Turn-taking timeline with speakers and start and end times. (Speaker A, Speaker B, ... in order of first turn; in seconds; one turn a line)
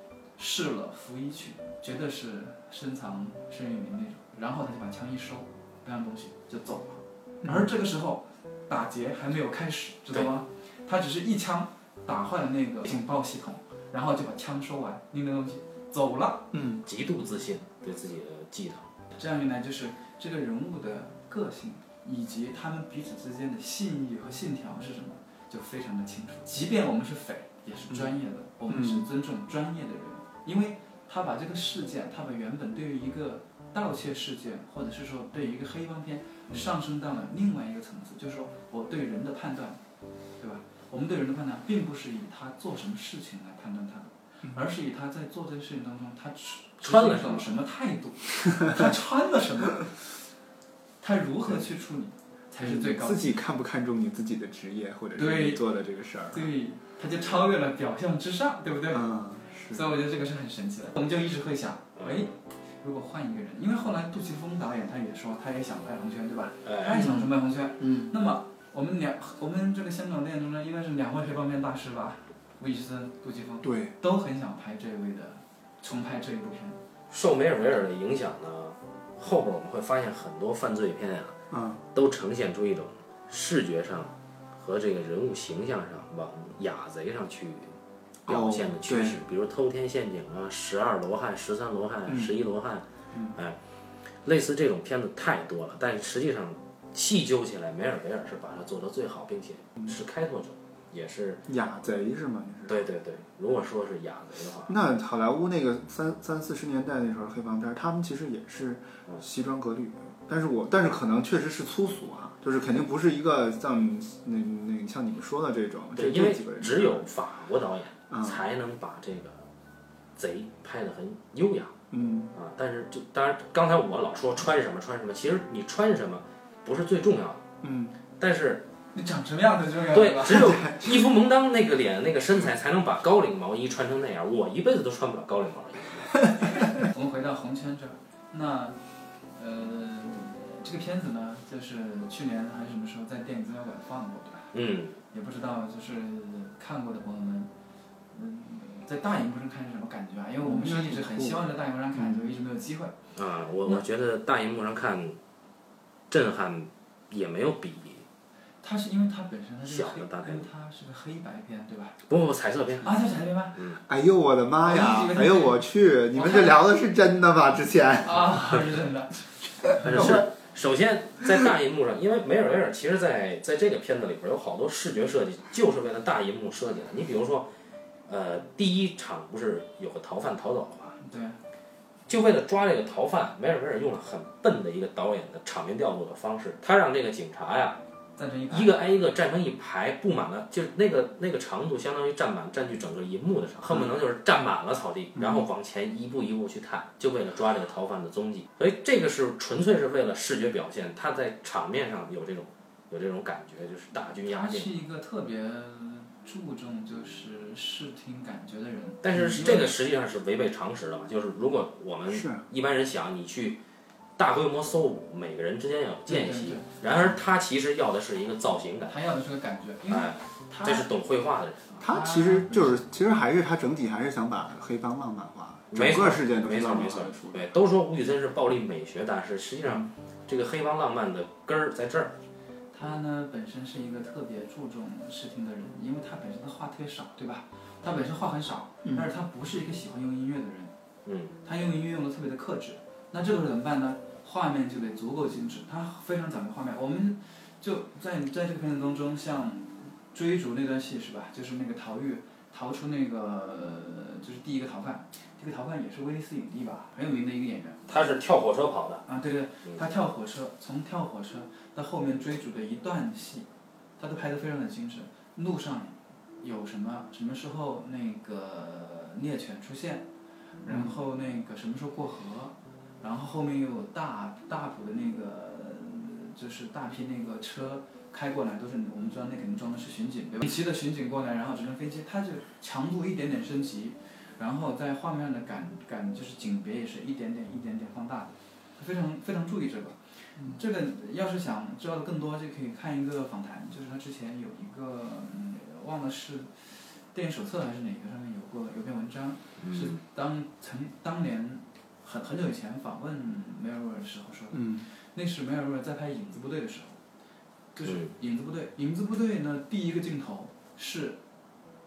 Speaker A: 0.4-16.5
Speaker B: 7.4-7.8
Speaker B: 16.5-16.8
Speaker C: 16.8-18.9
Speaker A: 19.1-39.8
Speaker B: 28.7-29.1
Speaker A: 40.4-49.9
Speaker C: 46.8-47.5
Speaker A: 51.0-53.3
Speaker B: 52.6-56.5
Speaker A: 55.1-55.6
Speaker A: 56.3-59.1
Speaker B: 58.9-59.9
Speaker A: 59.7-76.8
Speaker C: 62.0-62.3
Speaker C: 66.6-67.0
Speaker B: 66.9-68.1
Speaker B: 73.6-73.9
Speaker C: 77.1-81.4
Speaker B: 81.5-81.8
Speaker C: 81.9-93.6
Speaker B: 88.3-89.2
Speaker B: 92.1-92.3
Speaker C: 94.2-101.4
Speaker B: 101.5-102.8
Speaker C: 102.7-104.8
Speaker B: 104.7-117.1
Speaker C: 116.0-119.5
Speaker B: 118.1-118.4
Speaker C: 120.2-121.7
Speaker B: 121.9-122.3
Speaker C: 122.3-127.4
Speaker B: 127.6-128.0
Speaker C: 128.2-128.6
Speaker A: 128.9-130.6
Speaker C: 129.9-136.3
Speaker B: 130.3-131.1
Speaker A: 136.7-138.8
Speaker A: 139.3-144.5
Speaker C: 144.5-145.0
Speaker A: 145.1-147.5
Speaker A: 148.1-152.9
Speaker B: 150.4-152.2
Speaker C: 153.1-155.2
Speaker C: 156.1-158.1
Speaker A: 158.6-162.0
Speaker C: 159.7-160.5
Speaker C: 162.1-163.0
Speaker A: 162.8-163.6
Speaker C: 163.6-163.8
Speaker B: 163.8-168.6
Speaker A: 164.6-166.6
Speaker A: 168.0-170.2
Speaker C: 169.8-177.5
Speaker B: 169.8-170.3
Speaker C: 178.1-181.0
Speaker A: 181.0-181.4
Speaker C: 182.1-187.8
Speaker A: 188.2-188.7
Speaker C: 188.5-204.7
Speaker B: 195.2-195.4
Speaker A: 204.2-209.7
Speaker C: 209.0-213.6
Speaker B: 209.1-209.4
Speaker B: 212.1-212.4
Speaker C: 214.2-218.9
Speaker A: 216.1-217.1
Speaker A: 218.9-220.9
Speaker C: 219.9-221.8
Speaker A: 221.8-222.8
Speaker B: 221.8-227.5
Speaker C: 225.7-232.2
Speaker A: 232.7-240.7
Speaker B: 238.8-239.1
Speaker C: 241.0-241.3
Speaker A: 241.4-257.8
Speaker C: 257.9-259.0
Speaker A: 259.1-270.1
Speaker A: 270.6-307.0
Speaker B: 270.6-271.0
Speaker C: 299.6-300.0
Speaker B: 304.5-304.9
Speaker A: 307.7-311.2
Speaker C: 307.8-308.1